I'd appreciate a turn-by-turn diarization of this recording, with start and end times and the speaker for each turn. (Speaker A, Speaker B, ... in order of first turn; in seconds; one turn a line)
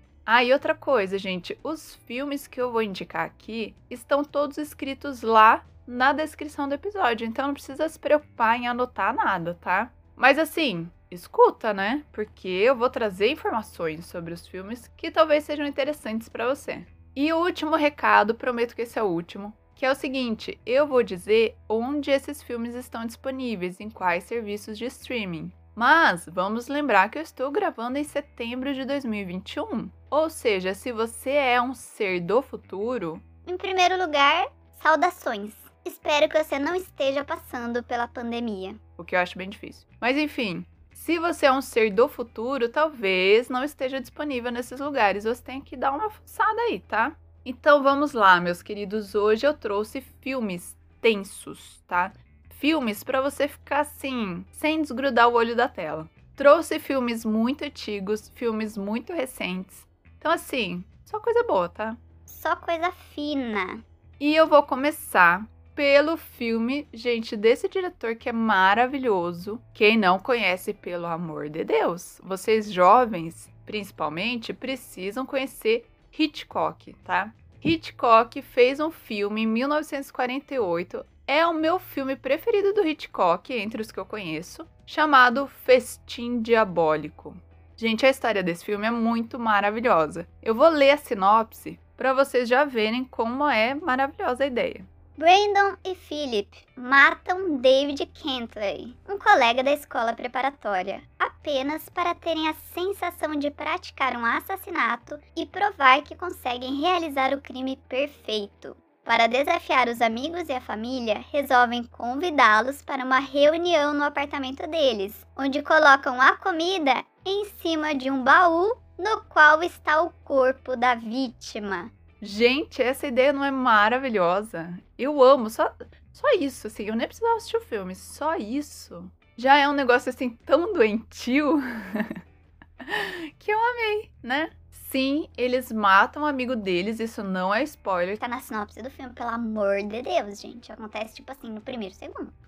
Speaker A: 0.3-33.2
Speaker B: 33.5-38.8
Speaker A: 39.0-62.0
Speaker B: 62.3-63.8
Speaker A: 64.2-94.9
Speaker B: 95.2-121.9
Speaker A: 122.2-132.2
Speaker A: 132.8-138.2
Speaker B: 138.2-142.3